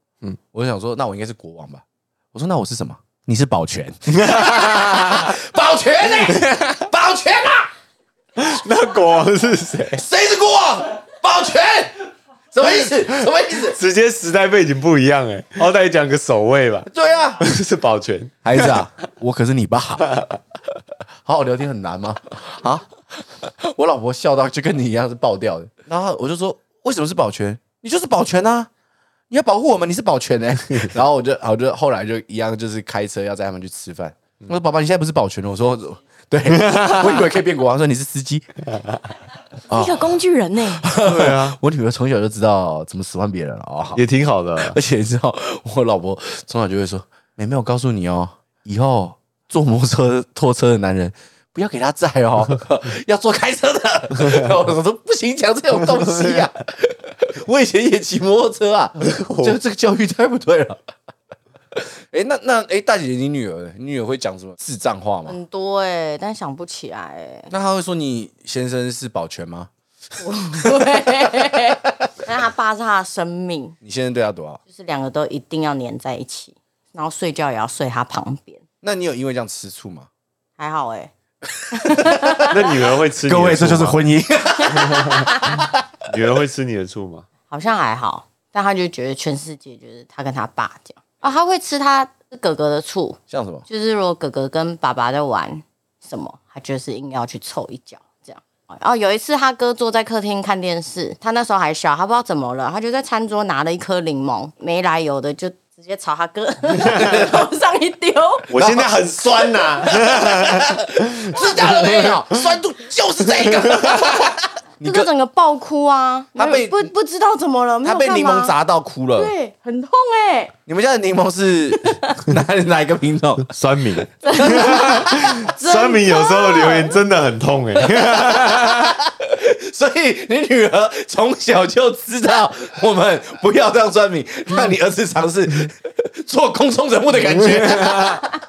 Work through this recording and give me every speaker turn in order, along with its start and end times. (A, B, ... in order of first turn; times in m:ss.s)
0:00.5-0:07.7 A
0:04.2-0:05.3 B
0:06.3-0:06.6 B
0:08.4-0:10.0 B
0:09.9-0:13.8 A
0:13.5-0:16.9 B
0:16.9-0:17.4 A
0:17.4-0:18.8 B
0:18.4-0:20.2 A
0:21.2-0:28.7 A
0:29.3-0:38.5 A
0:36.6-0:37.2 B
0:39.7-0:40.1 A
0:39.7-0:40.9 C
0:40.8-0:44.0 A
0:41.0-0:41.6 B
0:43.9-0:44.8 B
0:44.6-1:00.8 A
0:56.0-0:56.4 B
0:59.0-0:59.6 B
1:01.7-1:05.4 A
1:05.3-1:07.5 C
1:07.5-1:09.7 A
1:10.2-1:13.8 C
1:10.6-1:11.2 A
1:13.8-1:14.6 A
1:14.7-1:18.6 C
1:18.8-1:20.1 A
1:20.6-1:21.1 C
1:21.5-1:22.4 A
1:21.7-1:22.6 C
1:22.5-1:24.0 B
1:23.2-1:25.7 A
1:24.7-1:25.3 B
1:26.0-1:27.2 B
1:27.5-1:48.5 C
1:33.3-1:33.6 A
1:46.8-1:47.4 A
1:48.5-1:52.1 B
1:48.5-1:49.0 A
1:49.9-1:55.1 A
1:53.5-1:54.1 B
1:54.8-1:58.5 C
1:56.4-1:56.9 A
1:57.8-1:59.3 A
1:59.2-2:00.5 C
2:00.6-2:03.5 A
2:01.8-2:02.2 C
2:03.4-2:09.0 B
2:04.2-2:07.0 C
2:04.4-2:04.9 A
2:08.0-2:18.3 A
2:17.5-2:18.0 B